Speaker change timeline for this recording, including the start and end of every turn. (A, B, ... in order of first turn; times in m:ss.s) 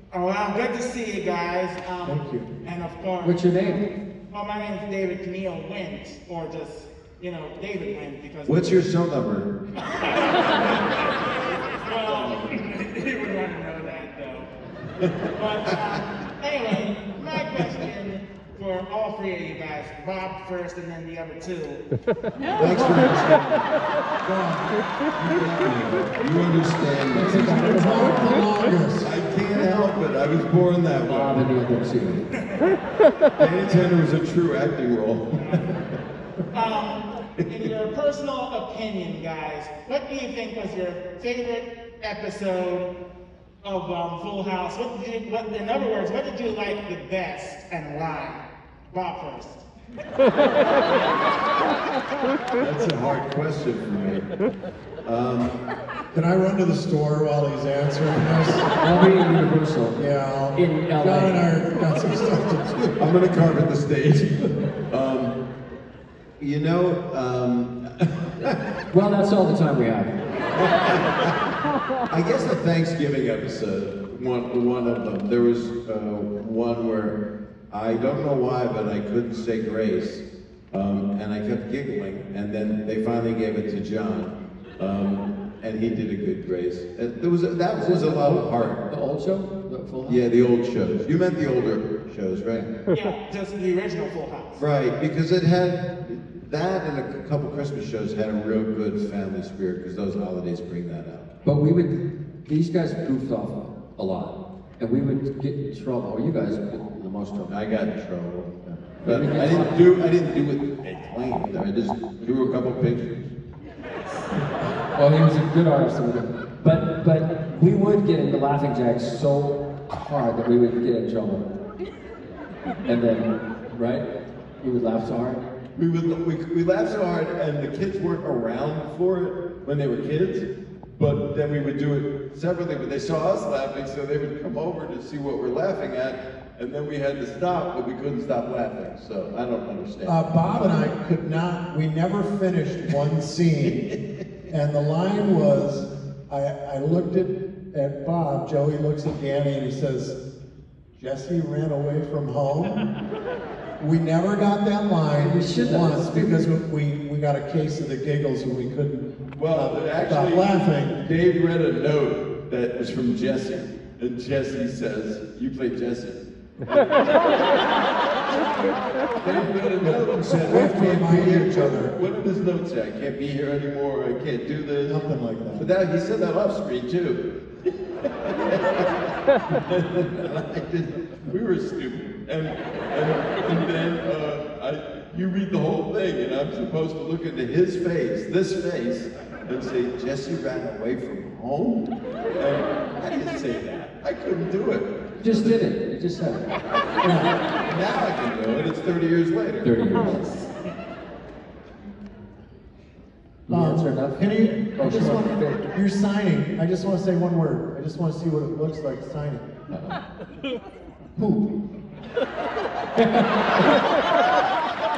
0:00.1-0:03.4 A
0:02.0-0:02.5 B
0:03.2-0:03.8 C
0:04.3-0:08.7 A
0:08.4-0:09.5 D
0:09.9-0:14.5 A
0:12.1-0:12.5 D
0:15.0-0:16.0 D
0:15.3-0:21.8 A
0:22.5-0:23.4 B
0:22.6-0:23.5 D
0:24.2-0:24.7 B
0:25.1-0:28.1 D
0:27.1-0:29.1 B
0:27.4-0:28.1 C
0:29.0-0:31.3 D
0:31.1-0:32.2 C
0:33.4-0:35.8 D
0:35.4-0:35.6 A
0:36.5-0:42.9 A
0:37.4-0:37.7 D
0:43.6-0:49.6 A
0:52.6-0:54.2 D
0:55.0-0:55.6 D
0:56.1-0:58.7 B
0:58.8-1:00.0 C
1:00.0-1:03.0 B
1:00.5-1:01.4 C
1:03.0-1:05.3 D
1:06.4-1:08.6 D
1:08.9-1:10.1 C
1:10.5-1:11.3 D
1:12.1-1:17.2 D
1:17.7-1:28.8 D
1:27.7-1:30.2 C
1:30.0-1:32.6 D
1:32.9-1:34.6 A
1:34.6-1:41.3 D
1:41.4-1:47.5 C
1:47.5-1:48.5 D
1:48.6-1:49.8 C
1:49.0-1:53.3 D
1:54.9-2:01.4 C
2:02.8-2:04.0 C
2:04.6-2:05.5 C
2:05.8-2:20.4 D
2:20.0-2:23.9 B
2:24.5-2:30.2 B
2:31.0-2:32.8 B
2:33.8-2:41.0 B
2:35.2-2:36.5 C
2:39.4-2:40.5 D
2:41.0-2:46.2 D
2:49.2-3:15.6 D
2:49.8-2:51.9 B
2:54.8-2:55.7 B
3:15.2-3:16.4 C
3:17.0-3:17.3 B
3:17.6-3:19.7 D
3:19.6-3:20.4 C
3:23.5-3:25.6 C
3:23.5-3:29.4 B
3:29.7-3:30.0 C
3:31.2-3:31.4 B
3:33.0-3:33.7 C